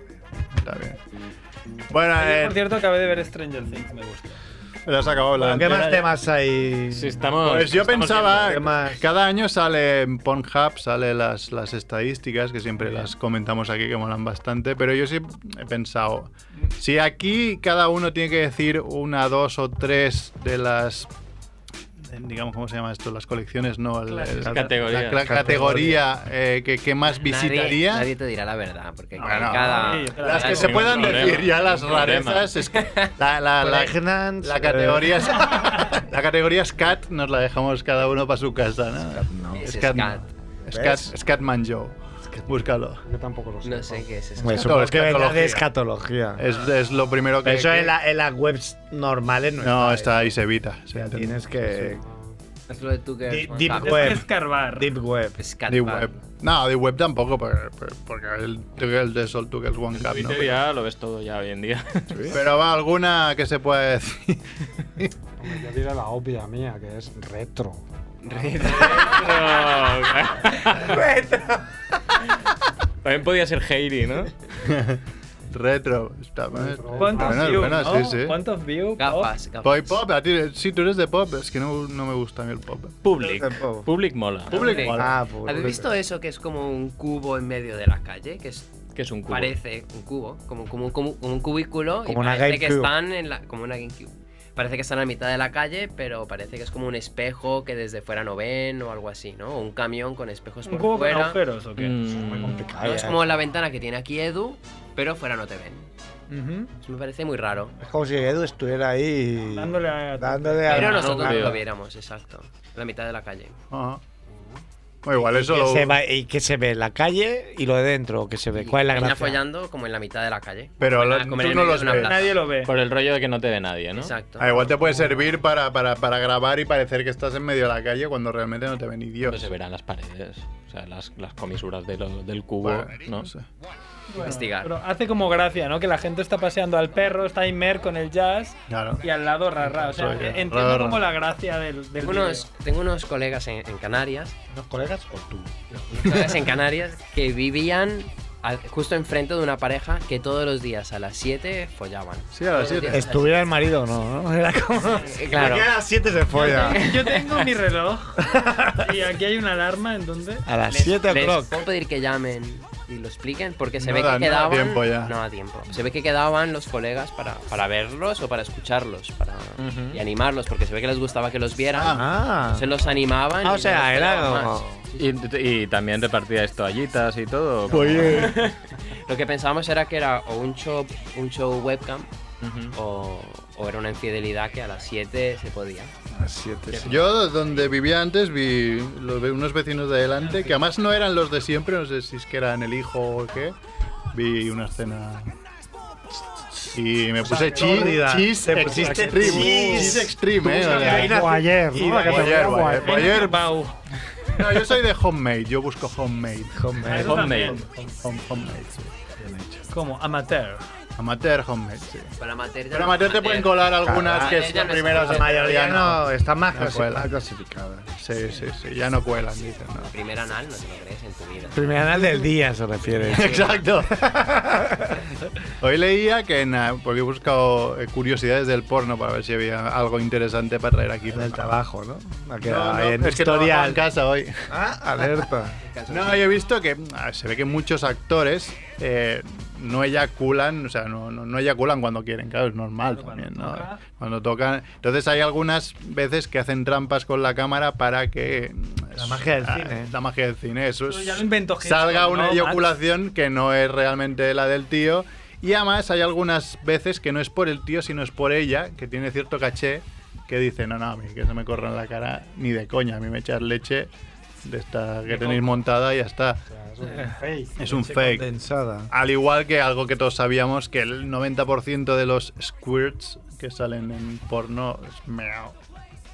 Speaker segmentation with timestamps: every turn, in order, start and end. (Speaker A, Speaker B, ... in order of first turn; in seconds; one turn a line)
Speaker A: 0.5-1.0
Speaker A: 1.9-2.6
Speaker B: 2.2-4.4
Speaker A: 4.9-5.9
Speaker C: 5.4-7.2
Speaker B: 5.5-6.0
Speaker D: 6.9-8.6
Speaker A: 7.4-21.1
Speaker C: 8.3-9.0
Speaker A: 22.0-28.1
Speaker B: 24.1-24.5
Speaker C: 24.4-26.0
Speaker D: 24.5-25.8
Speaker E: 27.1-31.1
Speaker A: 29.2-43.0
Speaker B: 29.6-31.3
Speaker D: 30.4-32.5
Speaker E: 32.8-33.1
Speaker C: 33.6-35.6
Speaker C: 39.1-39.6
Speaker E: 39.5-40.3
Speaker C: 40.7-41.1
Speaker F: 43.0-44.1
Speaker E: 43.6-44.9
Speaker C: 44.4-46.4
Speaker A: 44.4-45.7
Speaker A: 46.4-48.0
Speaker C: 47.4-50.3
Speaker A: 49.6-51.9
Speaker C: 51.0-52.0
Speaker E: 52.7-54.1
Speaker C: 53.3-55.4
Speaker B: 53.7-54.9
Speaker E: 55.4-56.2
Speaker A: 55.7-60.6
Speaker D: 60.0-62.3
Speaker A: 62.3-64.4
Speaker F: 65.4-68.7
Speaker D: 68.4-71.1
Speaker C: 70.8-71.6
Speaker D: 73.0-74.3
Speaker A: 74.6-78.4
Speaker F: 76.5-77.8
Speaker B: 77.0-79.3
Speaker E: 79.0-80.0
Speaker A: 79.6-83.0
Speaker D: 83.0-84.8
Speaker C: 83.2-83.9
Speaker A: 84.5-85.2
Speaker E: 84.5-88.7
Speaker C: 84.8-85.9
Speaker D: 89.0-89.6
Speaker E: 89.3-101.4
Speaker C: 92.1-92.9
Speaker B: 100.7-102.0
Speaker D: 101.8-102.8
Speaker C: 102.2-103.2
Speaker E: 102.8-105.9
Speaker B: 106.3-106.7
Speaker E: 106.8-107.8
Speaker C: 107.8-111.5
Speaker B: 109.5-111.0
Speaker E: 110.7-113.6
Speaker D: 110.7-111.6
Speaker A: 113.7-114.0
Speaker A: 115.0-116.0
Speaker C: 115.3-119.4
Speaker E: 118.5-122.5
Speaker A: 120.8-122.2
Speaker B: 121.9-122.7
Speaker D: 122.6-124.2
Speaker E: 124.0-124.7
Speaker A: 124.4-129.5
Speaker D: 129.2-133.3
Speaker A: 132.6-133.5
Speaker B: 134.1-142.5
Speaker E: 134.2-134.7
Speaker A: 138.7-139.0
Speaker A: 139.7-141.1
Speaker E: 142.0-144.4
Speaker C: 144.5-145.5
Speaker E: 145.9-153.8
Speaker A: 152.3-153.1
Speaker C: 152.9-156.9
Speaker E: 155.0-155.8
Speaker B: 156.3-160.5
Speaker C: 158.2-158.9
Speaker C: 160.4-161.6
Speaker E: 160.7-174.7
Speaker A: 163.8-165.2
Speaker D: 169.6-170.0
Speaker A: 171.7-172.1
Speaker C: 171.9-172.7
Speaker C: 173.4-174.8
Speaker D: 175.0-178.5
Speaker A: 177.7-178.4
Speaker C: 177.8-178.2
Speaker E: 179.1-182.1
Speaker D: 182.4-182.8
Speaker E: 182.7-185.9
Speaker C: 186.2-187.0
Speaker D: 186.7-187.0
Speaker A: 186.8-193.6
Speaker A: 194.1-195.3
Speaker A: 196.7-201.2
Speaker C: 197.2-202.7
Speaker F: 197.6-197.9
Speaker F: 198.6-200.0
Speaker F: 200.6-203.3
Speaker A: 202.1-203.4
Speaker B: 202.8-203.8
Speaker A: 204.3-209.1
Speaker C: 206.6-207.2
Speaker B: 206.9-207.8
Speaker D: 206.9-207.6
Speaker B: 209.7-210.6
Speaker A: 211.0-212.1
Speaker E: 212.2-215.7
Speaker A: 212.7-217.1
Speaker C: 213.8-214.4
Speaker C: 215.0-217.9
Speaker A: 218.0-219.9
Speaker E: 219.8-222.0
Speaker C: 221.5-225.0
Speaker E: 223.0-223.6
Speaker A: 223.1-224.1
Speaker A: 225.6-231.6
Speaker C: 231.1-233.8
Speaker A: 232.4-234.5
Speaker C: 234.5-235.6
Speaker E: 235.6-236.3
Speaker A: 235.9-263.9
Speaker B: 242.9-243.8
Speaker C: 249.0-249.9
Speaker B: 250.9-252.7
Speaker A: 264.4-266.4
Speaker F: 265.1-265.4
Speaker F: 266.5-267.7
Speaker B: 266.8-267.2
Speaker A: 267.6-268.3
Speaker C: 267.7-268.9
Speaker A: 268.9-275.6